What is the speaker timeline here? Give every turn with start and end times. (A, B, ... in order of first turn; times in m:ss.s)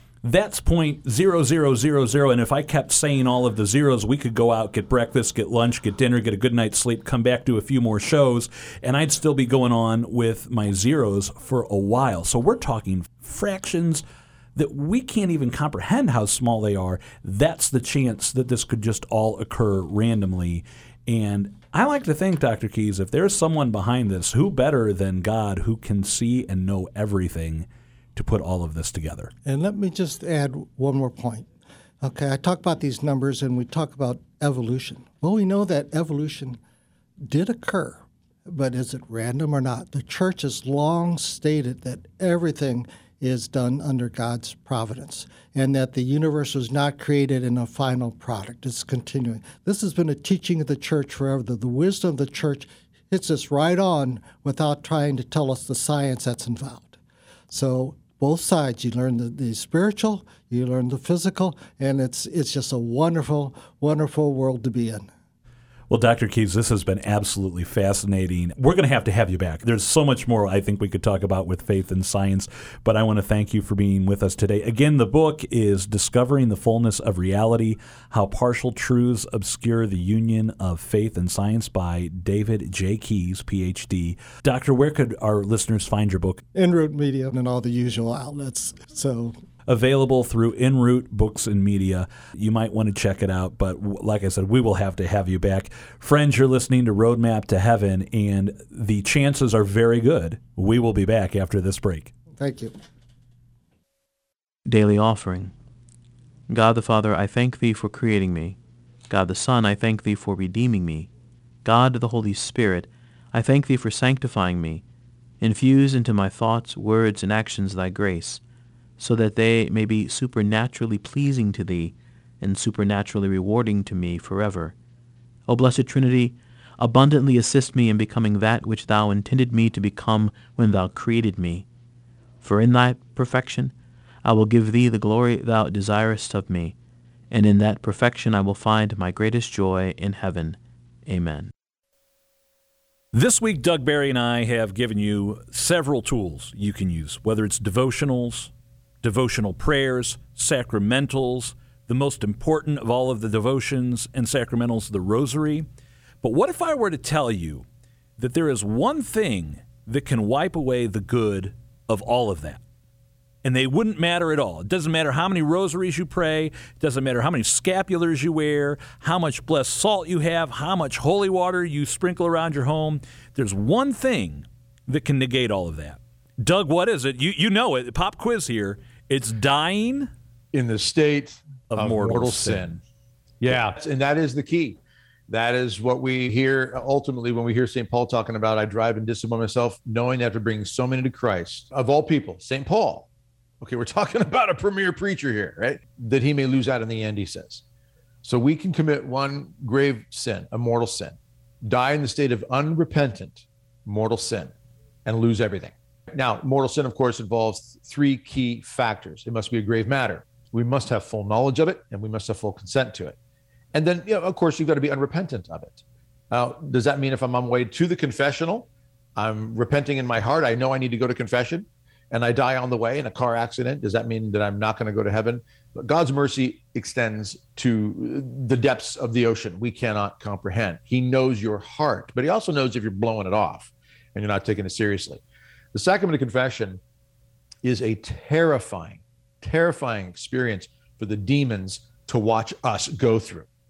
0:00.2-0:14.0 A
0:14.6-0:29.3 A
0:29.4-0:31.5 B
0:32.0-0:36.6 B
0:37.2-0:57.0 B
0:57.5-1:05.1 B
1:05.9-1:26.4 A
1:26.5-1:29.4 B
1:29.7-1:42.1 A
1:42.3-1:42.7 B
1:44.6-1:45.5 C
1:46.5-1:51.1 C
1:51.6-1:54.8 C
1:55.4-1:58.4 C
1:59.0-2:04.8 C
2:05.5-2:11.7 C
2:12.4-2:16.8 C
2:17.3-2:21.5 C
2:23.1-2:35.7 A
2:36.2-2:37.6 A
2:38.2-2:42.6 A
2:43.4-3:00.1 A
3:00.5-3:02.8 D
3:01.7-3:02.7 A
3:03.4-3:13.1 D
3:13.6-3:17.6 D
3:18.2-3:24.5 D
3:25.0-3:33.2 D
3:33.7-3:55.2 D
3:55.7-3:56.8 D
3:57.6-4:03.5 D